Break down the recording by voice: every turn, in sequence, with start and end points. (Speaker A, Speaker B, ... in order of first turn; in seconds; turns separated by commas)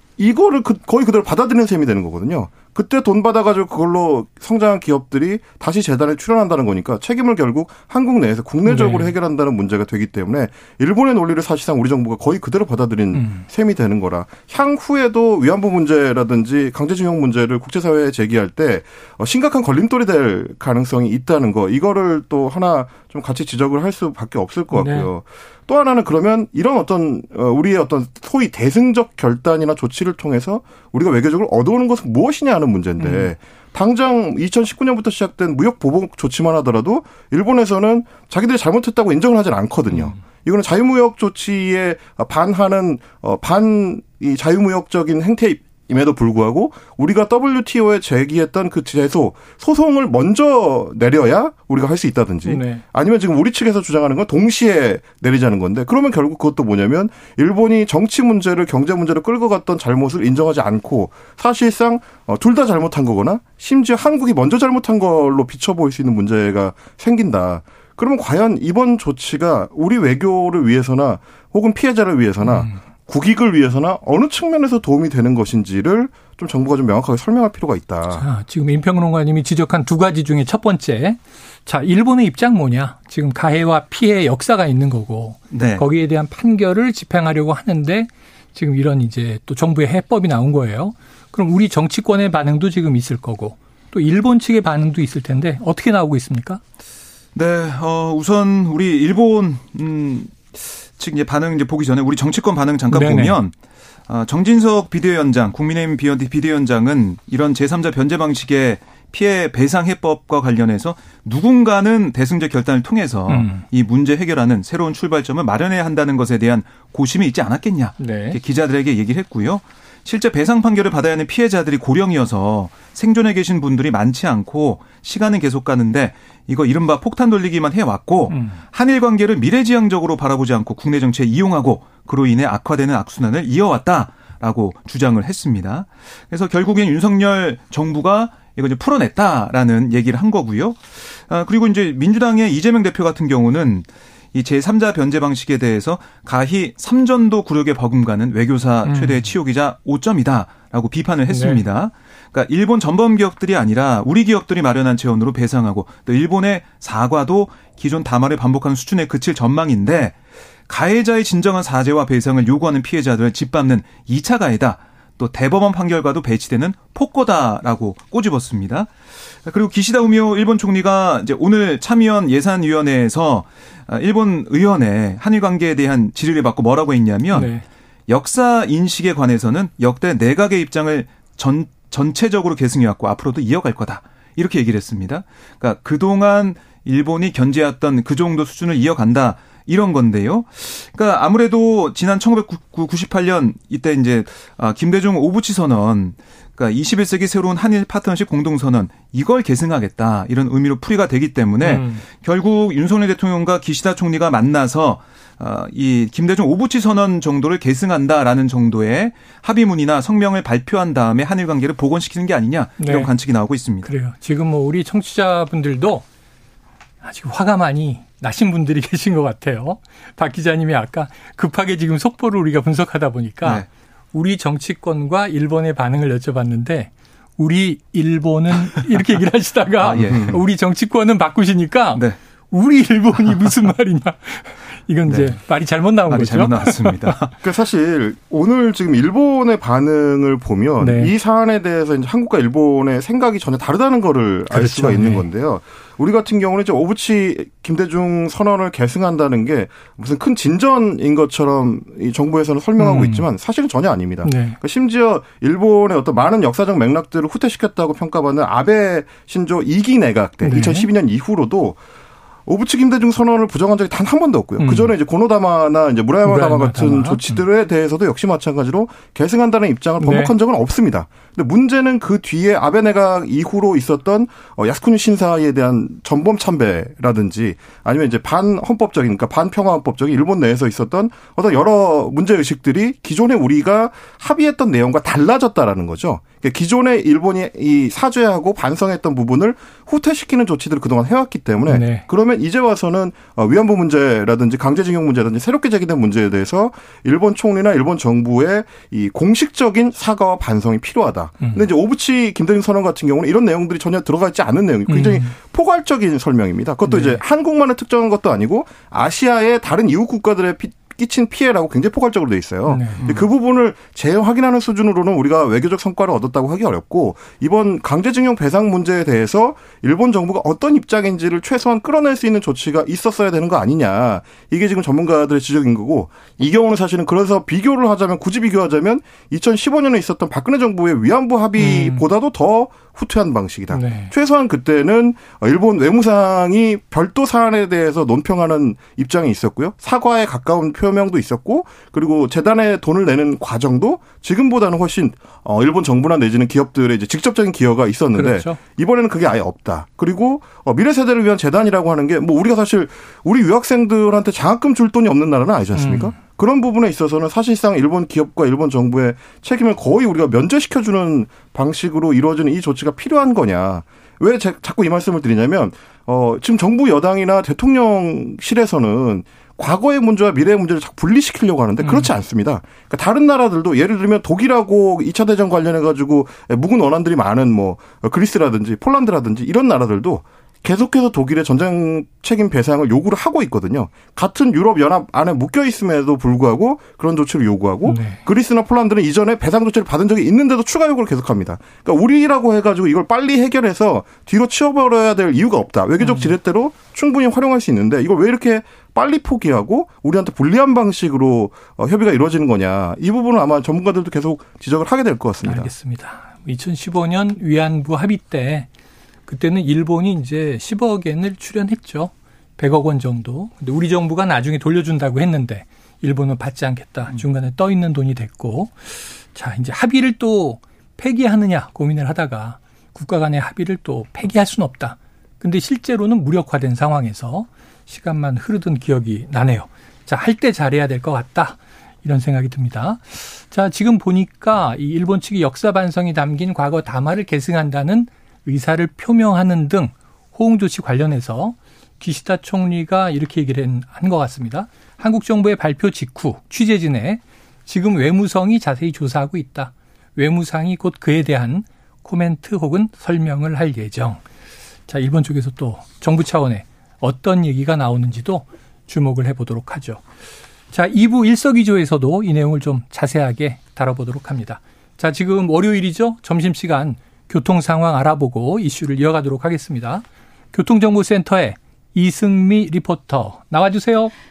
Speaker A: 0.2-78.2, Speaker B: 8.7-9.1, Speaker B: 13.1-13.4, Speaker B: 24.7-25.1, Speaker B: 33.0-33.3, Speaker B: 39.9-40.2, Speaker B: 52.4-52.8, Speaker B: 72.4-72.8, Speaker B: 78.1-96.6, Speaker C: 85.5-85.8, Speaker C: 97.3-103.5, Speaker B: 102.9-103.4, Speaker C: 104.1-160.2, Speaker B: 113.3-113.6, Speaker B: 118.0-118.4, Speaker B: 128.3-128.6, Speaker B: 148.8-149.2, Speaker B: 151.3-151.6, Speaker C: 160.7-168.9, Speaker C: 169.4-177.5, Speaker B: 177.3-177.6, Speaker C: 178.1-213.9, Speaker B: 201.6-202.0, Speaker B: 212.8-213.1, Speaker B: 213.8-216.0, Speaker B: 217.0-237.2, Speaker C: 229.8-230.4, Speaker A: 230.1-230.4, Speaker C: 235.1-235.3, Speaker C: 236.1-237.3, Speaker A: 237.4-261.8, Speaker B: 240.8-241.1, Speaker B: 244.5-245.2, Speaker B: 252.8-253.3, Speaker B: 254.2-254.6, Speaker B: 260.4-260.9, Speaker A: 262.4-405.7, Speaker B: 264.6-264.9, Speaker B: 266.2-267.2, Speaker B: 270.0-270.3, Speaker B: 291.7-292.1, Speaker B: 304.9-305.3, Speaker B: 306.9-307.2, Speaker B: 312.7-313.1, Speaker B: 331.6-332.0, Speaker B: 333.7-334.1, Speaker B: 348.1-348.6, Speaker B: 355.7-356.1, Speaker B: 371.8-372.1, Speaker B: 387.8-388.2, Speaker B: 396.0-396.3, Speaker B: 405.4-408.7, Speaker B: 409.3-454.2, Speaker B: 454.9-460.0, Speaker B: 460.7-474.1